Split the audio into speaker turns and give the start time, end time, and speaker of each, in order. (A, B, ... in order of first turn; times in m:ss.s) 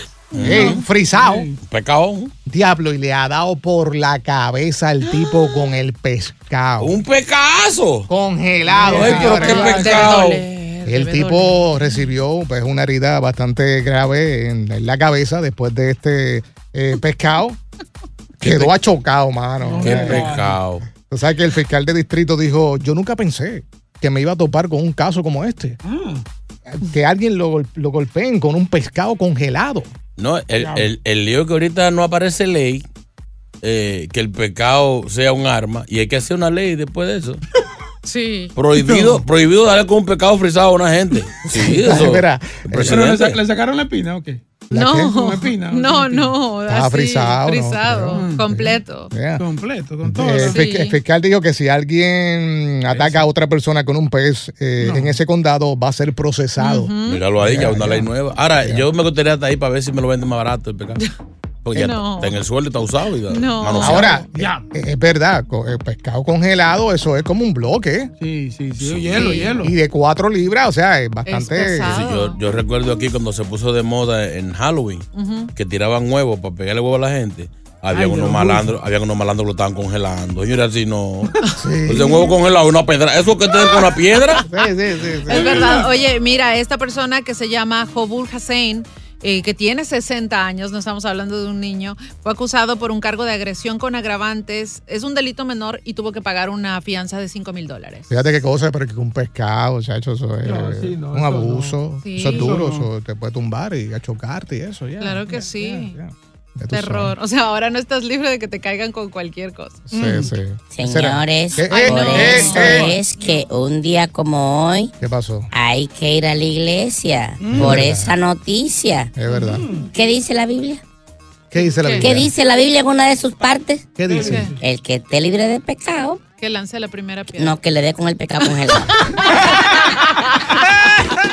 0:00.3-0:00.8 A
0:00.3-0:01.5 B
0:00.4-0:01.6 C
0:01.6-0:02.3 A
0:02.5-0:07.0 B
0:06.8-0:08.1 A
0:08.1-0:09.9 B
0:08.7-0:10.3 C
0:08.8-0:10.4 A
0:09.3-0:11.6 D
0:10.8-0:17.6 B
0:18.4-0:18.7 A
0:18.4-0:20.4 B
0:19.6-0:20.6 C
0:19.8-0:20.8 A
0:21.1-0:25.8 B
0:25.8-0:26.2 C
0:26.7-0:29.9 B
0:30.2-0:32.8 A
0:30.6-0:30.9 C
0:33.6-0:37.4 A
0:38.1-0:38.5 D
0:38.6-0:43.4 A
0:38.8-0:39.2 C
0:41.5-0:43.0 B
0:42.8-0:44.4 C
0:44.7-0:45.2 B
0:44.7-0:49.1 D
0:45.0-0:46.4 C
0:46.7-0:49.5 B
0:48.1-0:48.5 C
0:49.4-0:50.6 C
0:50.0-0:58.8 B
0:50.3-0:51.0 D
0:52.9-0:53.2 C
0:54.8-0:55.2 C
0:56.6-0:57.2 D
0:57.1-1:01.0 A
1:01.6-1:04.2 A
1:01.8-1:02.4 D
1:03.3-1:04.2 D
1:03.8-1:08.1 B
1:04.0-1:04.7 C
1:08.2-1:09.7 C
1:08.8-1:09.4 A
1:09.2-1:09.5 D
1:09.4-1:12.0 B
1:11.3-1:12.4 D
1:11.9-1:24.4 A
1:15.2-1:15.5 D
1:17.9-1:18.7 C
1:21.6-1:22.2 B
1:24.5-1:25.7 B
1:25.3-1:25.9 C
1:25.3-1:38.2 D
1:38.1-1:47.1 B
1:40.4-1:42.9 C
1:42.0-1:42.6 D
1:45.0-1:46.0 D
1:46.7-1:49.8 D
1:49.9-1:53.0 B
1:49.9-1:50.3 C
1:50.7-1:54.9 E
1:51.7-1:53.0 D
1:52.0-1:52.9 C
1:55.0-1:55.5 B
1:55.5-1:59.1 E
1:57.4-1:57.9 C
1:57.5-1:58.2 B
1:59.2-1:59.7 B
1:59.3-1:59.9 C
1:59.9-2:00.8 E
2:01.5-2:02.3 B
2:01.6-2:02.1 D
2:02.0-2:04.0 E
2:04.0-2:04.6 B
2:04.1-2:04.6 C
2:04.2-2:04.5 D
2:04.6-2:06.2 E
2:06.4-2:07.6 D
2:07.4-2:09.3 E
2:09.0-2:10.6 D